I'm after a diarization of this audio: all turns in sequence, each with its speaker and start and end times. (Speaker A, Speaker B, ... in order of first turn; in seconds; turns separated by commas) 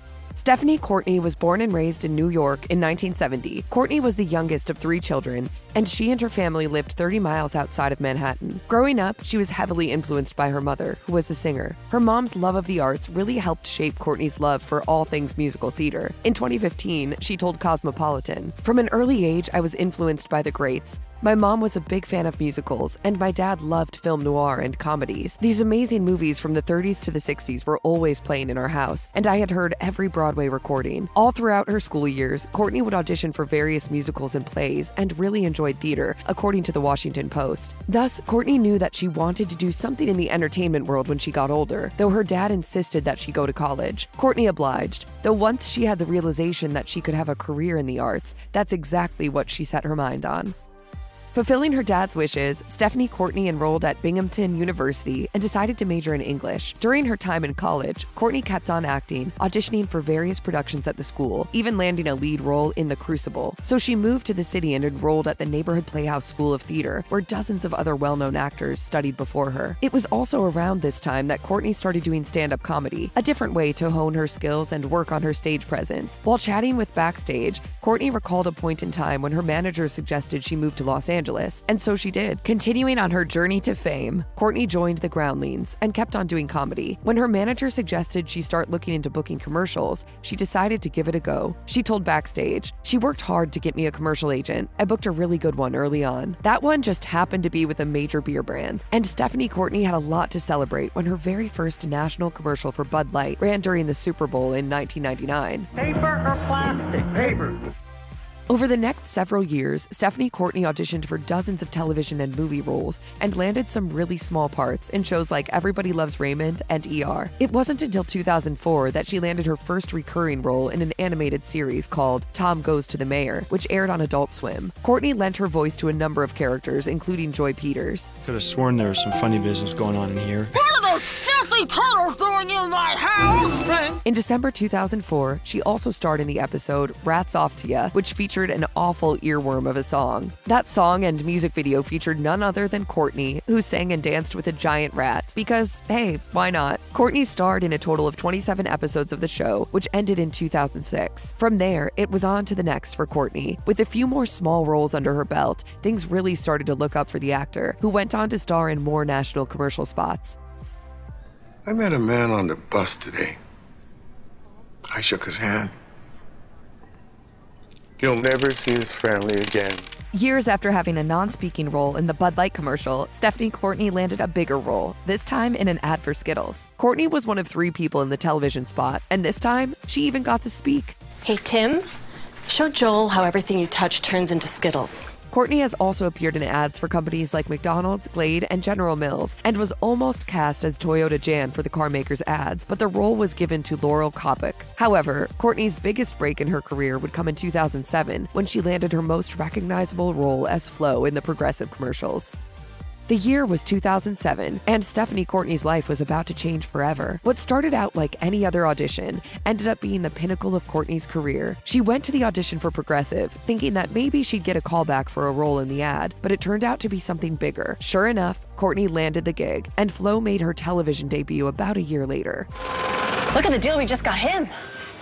Speaker A: 0.3-50.6, Speaker A: 51.3-105.7, Speaker B: 106.4-106.9, Speaker A: 108.5-128.1, Speaker C: 128.2-130.5, Speaker D: 130.6-134.0, Speaker A: 134.1-160.4, Speaker E: 161.7-163.4, Speaker E: 164.9-165.7, Speaker E: 168.0-169.8, Speaker A: 170.1-181.0, Speaker B: 181.2-181.8, Speaker B: 182.5-185.2, Speaker A: 185.3-202.3, Speaker A: 203.1-222.5, Speaker B: 223.3-224.5